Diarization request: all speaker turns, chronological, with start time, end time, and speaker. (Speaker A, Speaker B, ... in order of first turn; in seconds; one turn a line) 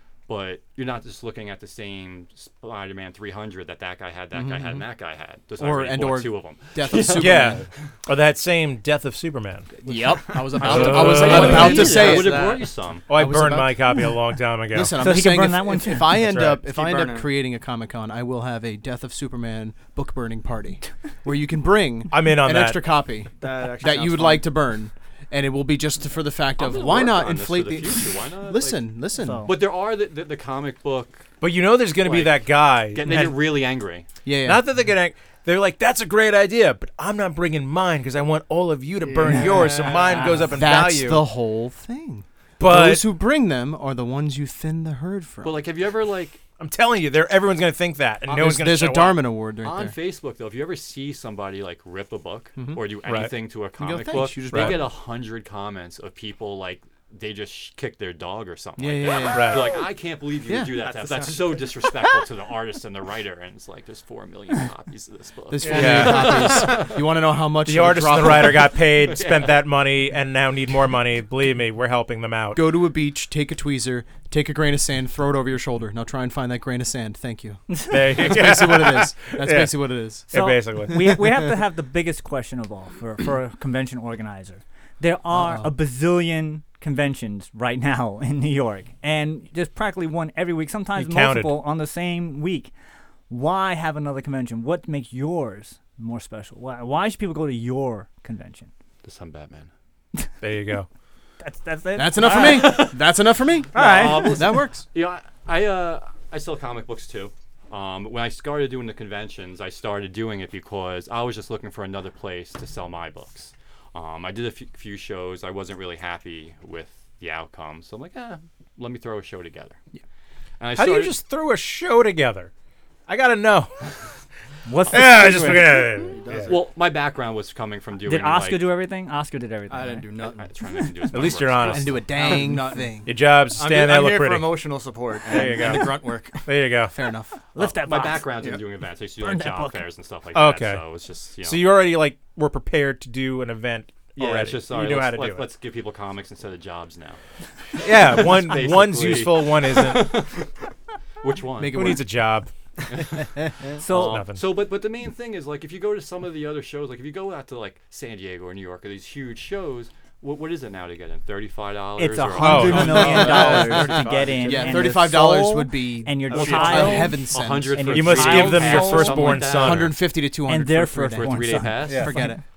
Speaker A: 0.3-7.5
Speaker B: 4.3-4.8
Speaker B: 5.6-7.7
Speaker C: 7.2-9.7
Speaker B: 9.8-14.1
Speaker A: 10.5-13.1
Speaker C: 10.5-12.4
Speaker C: 13.1-15.1
Speaker B: 14.7-29.5
Speaker D: 15.0-16.2
Speaker C: 16.1-16.6
Speaker E: 16.6-17.4
Speaker C: 22.1-22.9
Speaker E: 23.4-24.5
Speaker A: 26.6-31.3
Speaker D: 29.1-29.5
Speaker C: 31.4-33.4
Speaker A: 32.0-34.0
Speaker B: 34.2-34.7
Speaker C: 34.4-41.3
Speaker E: 39.0-40.4
Speaker B: 40.5-45.7
Speaker C: 42.6-43.2
Speaker A: 45.4-46.4
Speaker C: 46.6-49.2
Speaker B: 48.3-49.9
Speaker A: 49.6-67.0
Speaker B: 52.6-52.8
Speaker C: 53.0-53.3
Speaker B: 53.8-54.9
Speaker C: 54.5-54.8
Speaker B: 58.8-59.9
Speaker C: 59.3-59.7
Speaker B: 60.5-60.9
Speaker B: 65.5-68.8
Speaker C: 65.7-66.7
Speaker C: 67.6-72.7
Speaker A: 68.8-69.5
Speaker B: 72.5-81.4
Speaker C: 77.9-81.2
Speaker D: 80.3-92.7
Speaker B: 85.3-85.7
Speaker C: 91.0-91.6
Speaker D: 93.3-98.7
Speaker A: 99.0-99.7
Speaker C: 100.4-100.9
Speaker D: 101.4-103.0
Speaker B: 102.0-104.8
Speaker A: 102.3-103.0
Speaker D: 103.7-104.4
Speaker A: 103.7-119.8
Speaker A: 120.6-121.2
Speaker C: 120.8-122.5
Speaker C: 123.1-123.9
Speaker D: 124.7-125.9
Speaker C: 124.9-126.5
Speaker E: 126.1-126.7
Speaker A: 126.5-128.7
Speaker D: 128.1-130.1
Speaker E: 129.7-130.5
Speaker A: 130.2-132.1
Speaker C: 131.1-132.1
Speaker B: 131.6-133.1
Speaker E: 132.1-132.9
Speaker C: 133.0-134.6
Speaker E: 133.5-136.6
Speaker C: 135.3-136.9
Speaker B: 136.9-137.3
Speaker D: 137.5-138.3
Speaker A: 137.6-141.8
Speaker D: 139.2-139.8
Speaker C: 140.3-140.8
Speaker C: 141.4-145.5
Speaker A: 144.2-147.2
Speaker C: 147.8-150.3
Speaker A: 148.1-150.5
Speaker A: 151.2-152.0
Speaker B: 151.6-152.1
Speaker C: 151.7-152.5
Speaker A: 152.9-153.3
Speaker D: 153.8-154.2
Speaker A: 153.8-164.4
Speaker C: 153.9-154.4
Speaker D: 162.0-169.3
Speaker C: 162.4-163.6
Speaker B: 162.8-168.1
Speaker E: 162.9-164.9
Speaker E: 166.3-167.1
Speaker A: 166.3-170.0
Speaker C: 167.9-170.0
Speaker B: 169.0-172.4
Speaker D: 170.4-172.3
Speaker A: 171.2-172.1
Speaker C: 171.8-172.2